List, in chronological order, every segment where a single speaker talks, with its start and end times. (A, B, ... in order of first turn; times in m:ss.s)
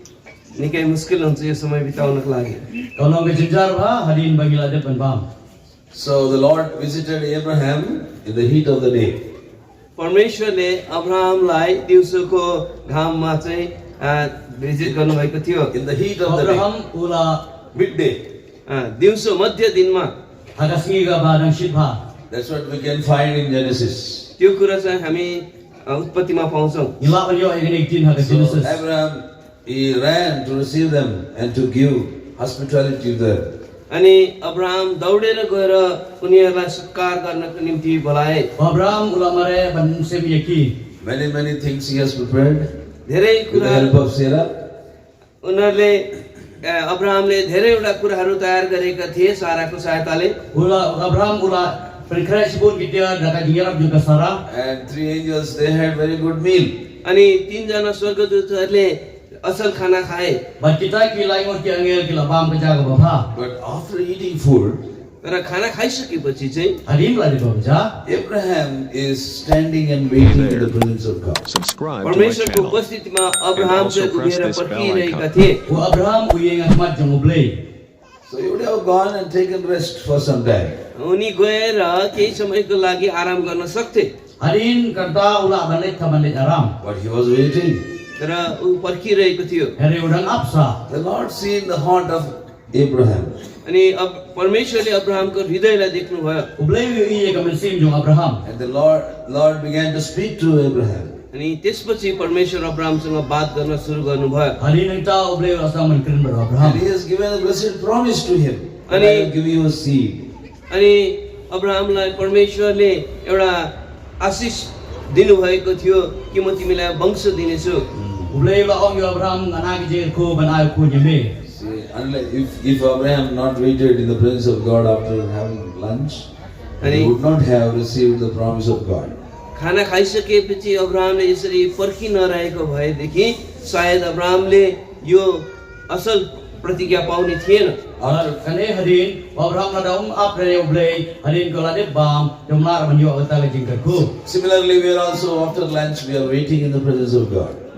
0:00.5-0:02.7 A
0:03.0-0:05.3 B
0:05.9-0:09.2 C
0:10.0-0:15.7 A
0:15.7-0:16.7 C
0:16.2-0:17.4 B
0:17.7-0:18.2 C
0:18.7-0:20.1 A
0:20.6-0:22.0 B
0:22.3-0:24.3 C
0:24.4-0:27.0 A
0:27.0-0:28.8 B
0:28.2-0:33.5 C
0:33.9-0:38.5 A
0:38.6-0:40.7 B
0:41.0-0:42.7 C
0:43.1-0:44.0 A
0:43.5-0:44.5 C
0:45.4-0:50.4 A
0:50.5-0:54.4 B
0:54.4-0:56.8 C
0:57.0-1:00.4 A
1:00.6-1:03.3 B
1:03.3-1:04.8 C
1:05.2-1:06.8 A
1:06.8-1:07.9 B
1:08.0-1:11.4 C
1:10.2-1:10.8 D
1:11.4-1:12.9 D
1:12.0-1:15.6 A
1:13.5-1:15.3 D
1:15.7-1:17.6 B
1:18.2-1:20.8 C
1:20.9-1:24.1 A
1:24.4-1:26.7 B
1:26.8-1:27.8 C
1:28.2-1:29.7 A
1:29.8-1:30.8 B
1:30.9-1:33.4 C
1:33.6-1:36.5 A
1:36.6-1:38.4 B
1:38.4-1:41.1 C
1:41.3-1:44.6 A
1:44.6-1:46.8 B
1:46.6-1:50.3 C
1:48.9-1:49.3 A
1:50.7-1:57.8 A
1:57.9-1:58.4 C
1:58.3-2:01.3 B
2:01.4-2:06.3 C
2:06.8-2:07.1 A
2:06.8-2:09.2 C
2:09.5-2:17.8 A
2:18.0-2:18.4 C
2:18.0-2:24.1 B
2:24.2-2:27.6 C